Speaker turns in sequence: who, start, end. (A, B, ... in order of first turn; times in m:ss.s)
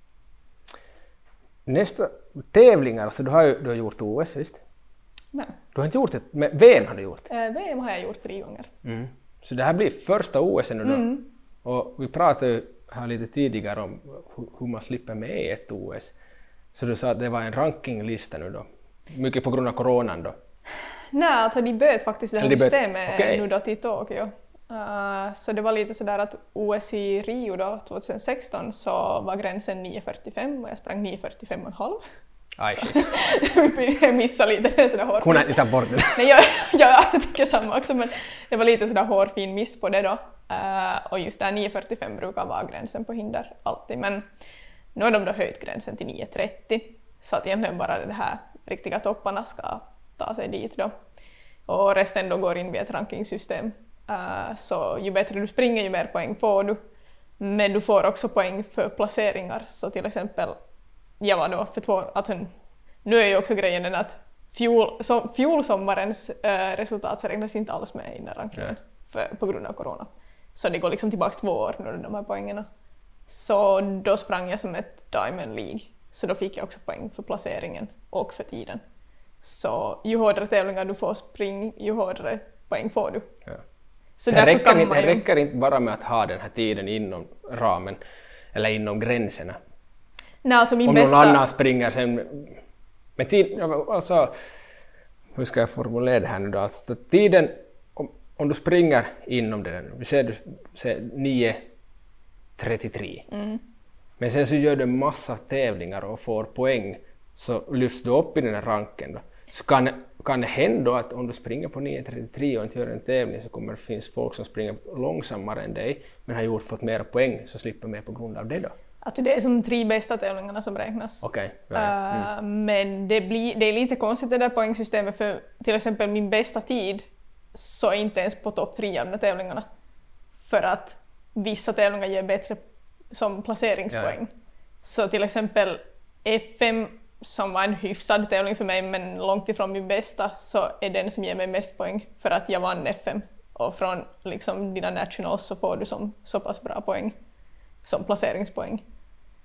0:01.6-0:04.6 A
0:05.7-0:07.3 A
0:07.3-0:08.7 B
0:08.8-0:16.1 A
0:10.8-0:11.3 B
0:16.7-0:20.4 A
0:21.1-0:32.0 B
0:22.4-0:23.4 A
0:32.6-0:33.1 A
0:32.7-0:44.2 B
0:35.2-0:36.3 A
0:44.9-0:50.9 B
0:51.7-0:56.8 B
0:57.4-1:00.6 B
1:01.2-1:02.5 B
1:03.0-1:12.6 B
1:13.3-1:18.8 B
1:19.4-1:23.3 B
1:24.2-1:25.2 B
1:24.3-1:28.0 A
1:28.5-1:29.6 A
1:30.4-1:31.4 B
1:30.8-1:32.6 A
1:33.2-1:34.3 A
1:35.3-1:41.6 A
1:42.6-1:43.2 A
1:43.3-1:43.6 B
1:44.2-1:58.7 A
1:59.0-2:09.6 B
2:01.2-2:02.3 A
2:10.4-2:12.6 B
2:13.1-2:14.3 B
2:14.8-2:27.1 B
2:27.8-2:28.8 B